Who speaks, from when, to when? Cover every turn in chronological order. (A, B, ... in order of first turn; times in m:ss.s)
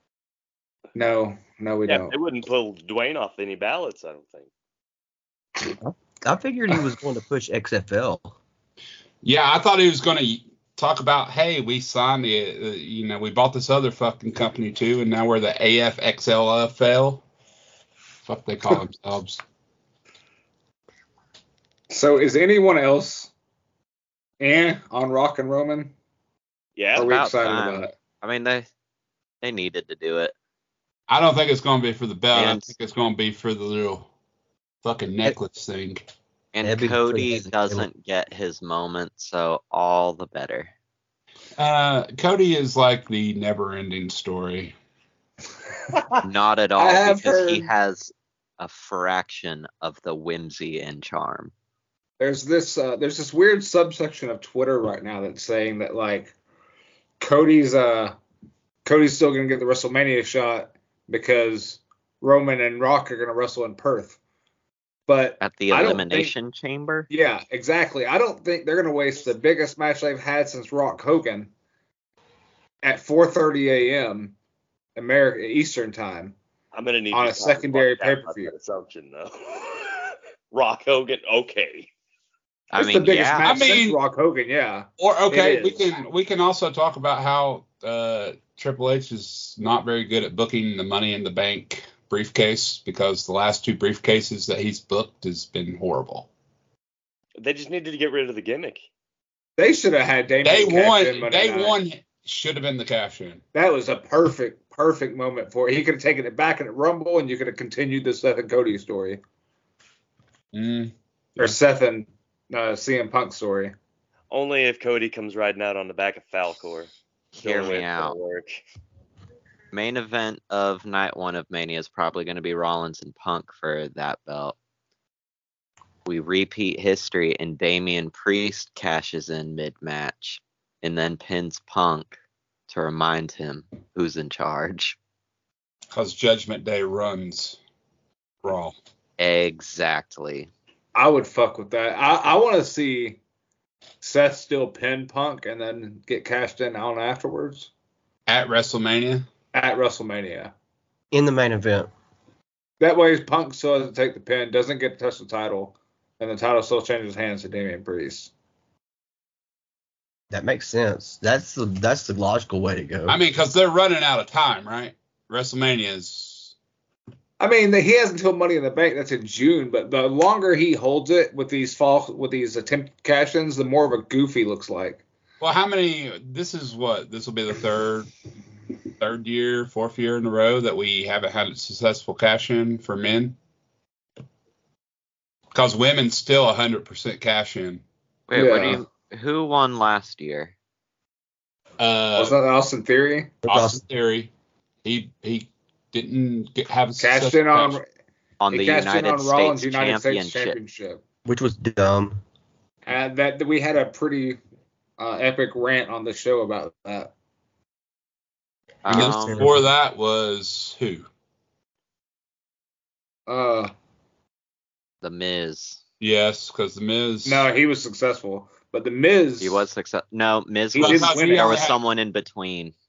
0:01.0-0:02.1 A
0:01.9-0:04.5 B
0:05.8-0:08.4 C
0:09.2-0:17.2 D
0:18.2-0:19.4 D
0:21.9-0:23.3 A
0:24.4-0:25.9 A
0:26.8-0:27.1 B
0:27.0-0:27.9 A
0:27.0-0:28.7 E
0:29.4-0:30.3 E
0:31.1-0:34.1 D
0:32.3-0:32.7 E
0:34.8-0:36.0 D
0:36.5-0:40.7 E
0:36.6-0:37.9 C
0:41.6-0:44.8 D
0:45.9-0:46.2 A
0:46.2-0:51.5 E
0:46.8-0:47.7 A
0:52.2-0:56.3 A
0:57.2-0:58.2 A
0:58.8-1:04.2 A
1:05.1-1:06.3 A
1:05.4-1:07.1 E
1:07.1-1:11.5 A
1:12.8-1:14.4 A
1:15.0-1:16.4 A
1:16.7-1:21.9 B
1:17.1-1:18.5 A
1:22.7-1:23.6 E
1:22.8-1:25.8 A
1:23.4-1:24.0 D
1:25.0-1:36.3 D
1:37.4-1:38.9 B
1:39.6-1:41.8 A
1:40.4-1:43.4 D
1:43.5-1:49.2 A
1:50.5-1:51.6 D
1:51.4-1:53.7 A
1:54.3-1:58.6 B
1:57.3-1:58.2 E
1:59.7-2:04.6 E
2:06.0-2:12.2 E
2:12.7-2:15.0 E
2:15.9-2:17.6 D
2:18.4-2:18.8 D
2:19.2-2:20.5 E
2:21.0-2:23.2 A
2:24.0-2:27.7 A
2:28.3-2:29.3 D
2:29.5-2:30.5 A
2:31.1-2:31.9 C
2:32.8-2:38.3 A
2:40.3-2:43.2 C
2:43.1-2:46.5 D
2:47.4-2:55.0 A
2:55.4-2:58.1 D
2:59.0-3:03.4 D
3:05.5-3:07.8 D
3:08.3-3:10.5 E
3:08.3-3:08.8 A
3:11.8-3:12.4 D
3:12.2-3:13.4 A
3:13.4-3:13.8 C
3:13.4-3:14.3 D
3:14.8-3:17.8 D
3:17.0-3:17.8 A
3:18.4-3:20.6 E
3:18.5-3:21.0 A
3:21.3-3:22.2 C
3:22.9-3:24.4 A
3:25.0-3:27.1 A
3:28.8-3:29.5 E
3:28.9-3:29.7 C
3:28.9-3:31.1 D
3:33.3-3:33.7 A
3:35.0-3:35.8 E
3:36.0-3:37.5 D
3:37.2-3:39.6 A
3:39.4-3:42.7 E
3:40.7-3:41.8 D
3:40.8-3:41.6 A